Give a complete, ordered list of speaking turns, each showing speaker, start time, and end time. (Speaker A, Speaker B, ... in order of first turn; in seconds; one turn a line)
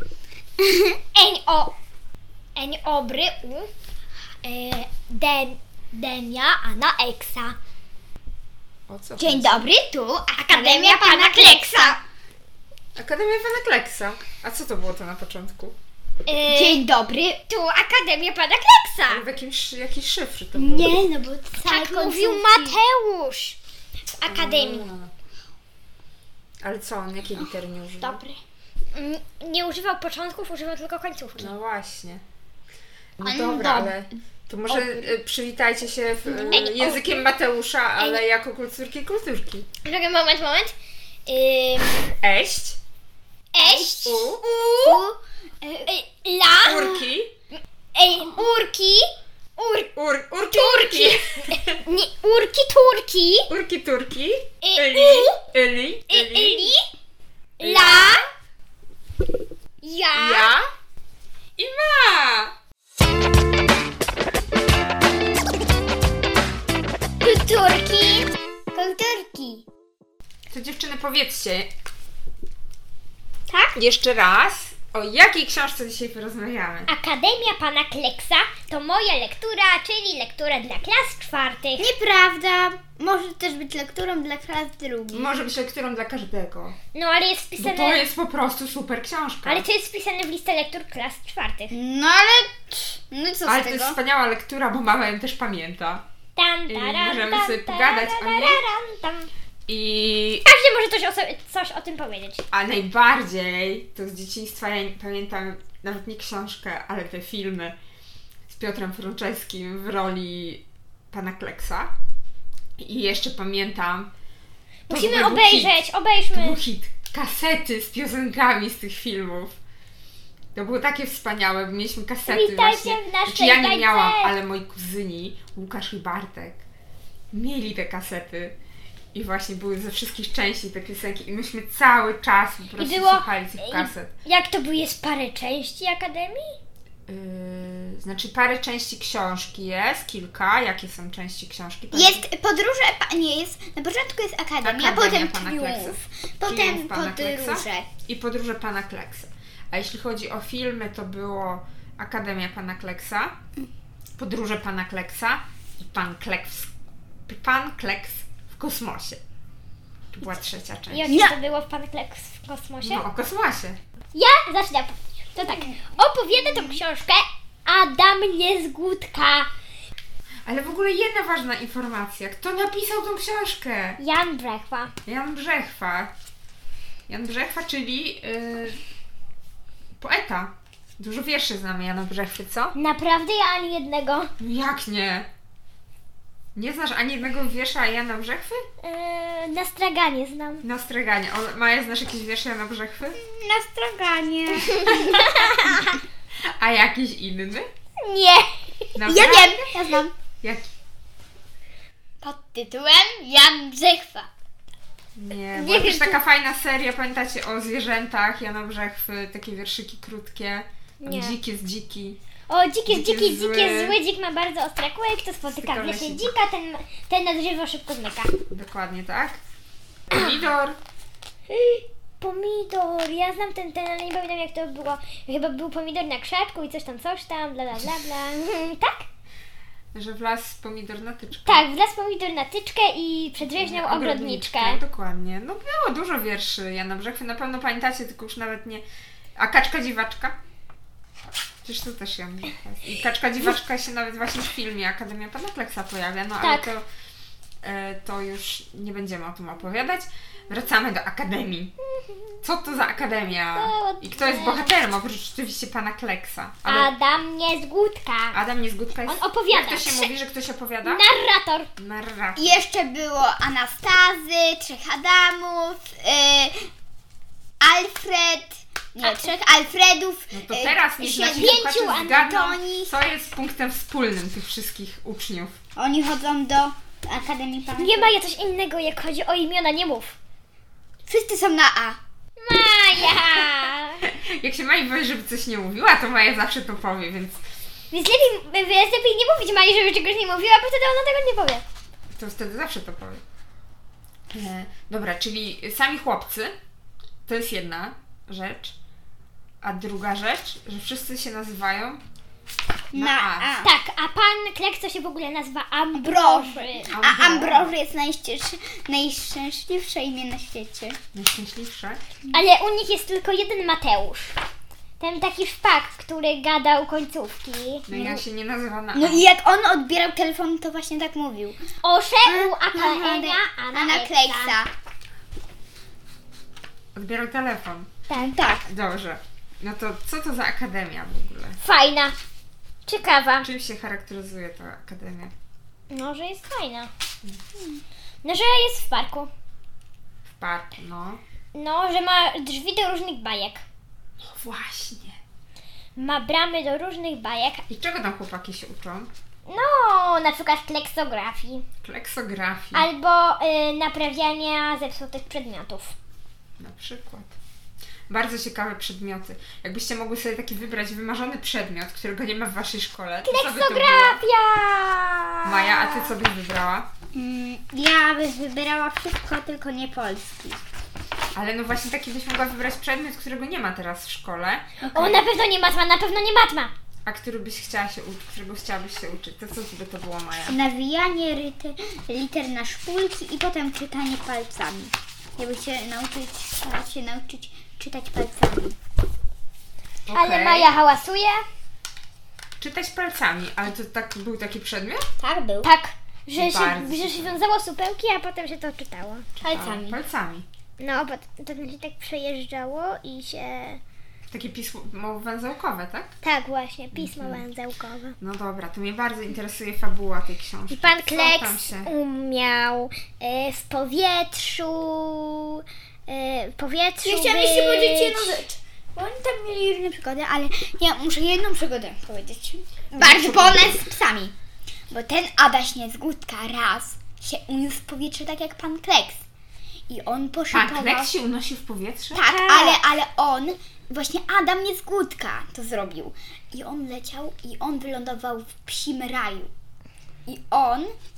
Speaker A: 0.6-1.0
Speaker B: 1.1-1.7
Speaker B: 2.5-3.7
Speaker B: 4.4-7.6
Speaker C: 8.9-9.7
Speaker A: 9.2-12.0
Speaker B: 10.4-12.0
Speaker C: 12.9-15.8
Speaker B: 16.2-16.8
Speaker A: 16.5-17.4
Speaker B: 17.5-19.2
Speaker C: 19.1-20.9
Speaker A: 20.5-22.8
Speaker B: 21.6-23.6
Speaker B: 24.2-24.9
Speaker C: 24.2-25.1
Speaker C: 26.6-28.2
Speaker B: 28.0-28.4
Speaker B: 28.9-31.5
Speaker C: 31.4-32.2
Speaker C: 33.2-39.7
Speaker A: 33.2-34.0
Speaker B: 36.2-37.2
Speaker B: 39.8-40.7
Speaker B: 41.2-42.1
Speaker C: 42.2-42.8
Speaker B: 43.5-45.0
Speaker A: 43.6-44.1
Speaker C: 44.0-44.4
Speaker A: 44.8-45.9
Speaker B: 45.9-47.1
Speaker C: 46.5-47.3
Speaker B: 47.9-49.0
Speaker B: 49.6-49.9
Speaker C: 50.0-51.8
Speaker B: 50.4-53.5
Speaker C: 53.5-56.7
Speaker B: 54.6-55.4
Speaker B: 56.1-56.8
Speaker B: 57.6-58.2
Speaker C: 57.6-58.2
Speaker B: 59.8-60.5
Speaker C: 60.1-60.6
Speaker C: 61.6-62.5
Speaker B: 67.2-68.3
Speaker A: 68.7-69.6
Speaker C: 70.5-71.7
Speaker C: 73.7-76.9
Speaker B: 76.9-81.8
Speaker A: 81.8-85.3
Speaker C: 85.1-86.8
Speaker B: 86.9-88.0
Speaker C: 87.6-89.7
Speaker B: 89.4-91.7
Speaker A: 91.7-94.0
Speaker C: 93.5-96.0
Speaker B: 96.4-99.3
Speaker C: 96.7-98.6
Speaker C: 99.7-100.5
Speaker B: 100.5-102.4
Speaker C: 102.5-107.8
Speaker C: 108.5-111.9
Speaker C: 112.8-114.1
Speaker B: 114.9-116.6
Speaker C: 114.9-119.5
Speaker C: 120.5-126.6
Speaker B: 122.3-124.3
Speaker C: 127.3-128.6
Speaker C: 129.1-134.1
Speaker B: 132.8-136.6
Speaker C: 137.1-142.2
Speaker A: 141.9-147.9
Speaker C: 144.6-153.3
Speaker C: 154.2-156.7
Speaker C: 157.3-159.2
Speaker C: 160.1-161.2
Speaker B: 160.9-163.0
Speaker A: 161.1-161.3
Speaker C: 162.8-163.8
Speaker B: 164.1-169.5
Speaker A: 165.4-165.8
Speaker C: 170.4-174.0
Speaker B: 174.0-174.9
Speaker C: 175.1-176.1
Speaker C: 177.1-178.8
Speaker C: 180.0-182.7
Speaker B: 182.8-184.3
Speaker C: 184.4-185.3
Speaker C: 186.5-188.7
Speaker B: 188.8-190.6
Speaker C: 190.6-193.2
Speaker A: 193.2-195.5
Speaker B: 194.8-195.8
Speaker C: 196.4-197.7
Speaker B: 198.0-198.5
Speaker C: 198.9-199.8
Speaker A: 199.0-200.1
Speaker A: 202.2-204.3
Speaker C: 205.2-212.2
Speaker B: 205.5-206.2
Speaker B: 211.0-211.4
Speaker B: 212.5-218.3
Speaker C: 212.9-214.0
Speaker C: 215.5-216.3
Speaker C: 218.5-219.4
Speaker C: 220.1-220.8
Speaker B: 221.5-229.1
Speaker C: 229.9-231.7
Speaker B: 231.4-234.8
Speaker C: 233.4-238.8
Speaker C: 239.4-240.4
Speaker C: 241.6-246.8
Speaker B: 246.4-246.7
Speaker C: 247.6-251.7
Speaker B: 251.9-252.4
Speaker C: 252.4-256.9
Speaker B: 253.5-254.7
Speaker B: 256.6-258.4
Speaker C: 258.3-261.0
Speaker B: 259.1-260.1
Speaker B: 260.8-261.7
Speaker C: 261.8-262.6
Speaker A: 262.4-266.7
Speaker A: 267.6-273.0
Speaker B: 269.0-269.3
Speaker C: 270.3-275.6
Speaker B: 271.2-272.5
Speaker A: 275.8-278.1
Speaker B: 277.8-280.1
Speaker A: 281.1-282.0
Speaker B: 282.4-284.0
Speaker C: 284.0-287.4
Speaker B: 287.9-291.6
Speaker C: 292.1-293.2
Speaker C: 294.3-296.5
Speaker C: 297.2-298.7
Speaker C: 299.6-302.0
Speaker A: 302.9-303.7
Speaker C: 302.9-303.7
Speaker B: 303.6-306.9
Speaker A: 305.9-311.0
Speaker C: 306.9-307.7
Speaker C: 311.1-312.0
Speaker B: 312.3-314.3
Speaker B: 315.0-318.2
Speaker C: 317.9-319.2
Speaker A: 318.9-321.6
Speaker B: 321.8-324.6
Speaker A: 322.2-324.7
Speaker C: 326.9-327.9
Speaker B: 328.1-328.4
Speaker A: 328.1-328.7
Speaker C: 328.5-331.6
Speaker B: 331.6-332.1
Speaker B: 332.9-333.5
Speaker C: 333.4-335.3
Speaker B: 335.9-336.9
Speaker B: 338.2-339.3
Speaker C: 340.4-341.2
Speaker B: 341.5-343.6
Speaker C: 344.2-345.2
Speaker B: 345.9-347.6
Speaker C: 347.7-349.1
Speaker B: 349.5-351.6
Speaker C: 351.8-352.9
Speaker B: 352.7-355.9
Speaker C: 356.6-357.3
Speaker C: 358.1-364.2
Speaker B: 363.2-366.1
Speaker C: 365.4-366.9
Speaker A: 367.1-370.6
Speaker C: 371.3-374.7
Speaker A: 374.8-375.2
Speaker B: 374.9-376.7
Speaker C: 377.1-380.6
Speaker A: 380.4-388.8
Speaker C: 390.1-390.7
Speaker B: 390.1-391.4
Speaker C: 392.6-395.1
Speaker A: 395.2-395.7
Speaker B: 395.6-399.3
Speaker C: 396.3-397.4
Speaker A: 399.4-400.0
Speaker C: 399.4-400.5
Speaker B: 400.8-403.8
Speaker C: 404.3-406.1
Speaker B: 406.2-408.2
Speaker C: 406.9-407.4
Speaker C: 408.2-411.9
Speaker B: 410.7-418.4
Speaker A: 417.0-424.3
Speaker C: 423.0-423.8
Speaker A: 424.9-429.2
Speaker A: 429.9-431.1
Speaker C: 430.5-432.2
Speaker A: 432.1-439.5
Speaker B: 432.2-432.8
Speaker A: 440.3-440.9